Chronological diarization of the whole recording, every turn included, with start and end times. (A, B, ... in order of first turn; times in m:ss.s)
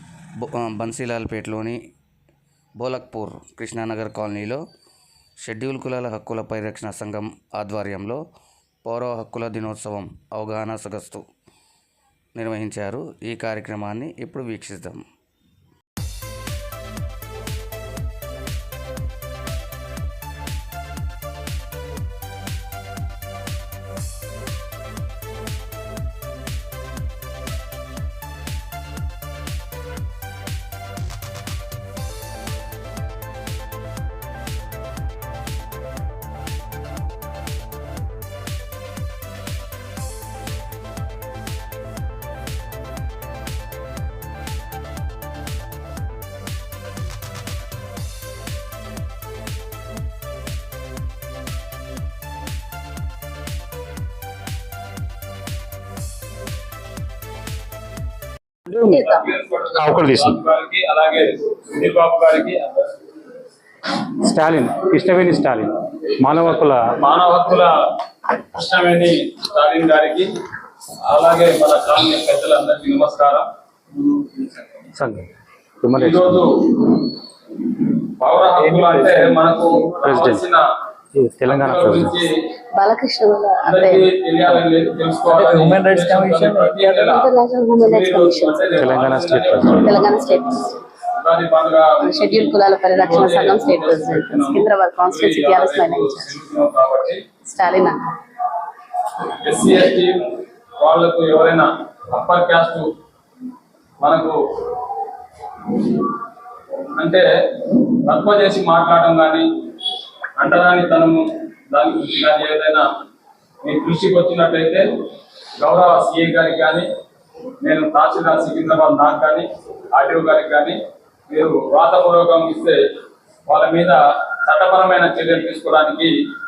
0:00.4-0:01.8 A
0:02.8-0:04.6 A
0:05.4-0:08.2 A
0:08.8-0:11.3 A
0:12.3-0:15.0 A
0:58.7-0:59.0 B
0:58.9-0:59.2 C
0:58.9-1:02.9 D
0:59.7-1:00.3 B
1:04.2-1:06.8 B
1:06.2-1:07.7 D
1:08.5-1:10.3 D
1:11.1-1:13.5 D
1:14.0-1:14.8 D
1:14.9-1:15.3 B
1:15.8-1:16.4 B
1:15.9-1:17.0 D
1:17.8-1:20.6 D
1:18.6-1:19.3 B
1:20.0-1:20.4 B
1:21.1-1:22.1 B
1:21.4-1:22.3 D
1:22.8-1:24.1 C
1:23.6-1:27.3 D
1:25.3-1:26.7 B
1:26.8-1:29.1 C
1:27.8-1:30.4 D
1:28.8-1:29.8 B
1:29.7-1:30.8 C
1:31.2-1:37.2 D
1:32.0-1:36.3 C
1:37.5-1:38.0 C
1:39.4-1:42.9 D
1:44.0-1:44.4 D
1:47.0-1:49.5 D
1:50.4-1:52.8 D
1:53.6-1:54.8 D
1:55.6-1:56.9 D
1:57.6-2:02.8 D
2:03.5-2:06.1 D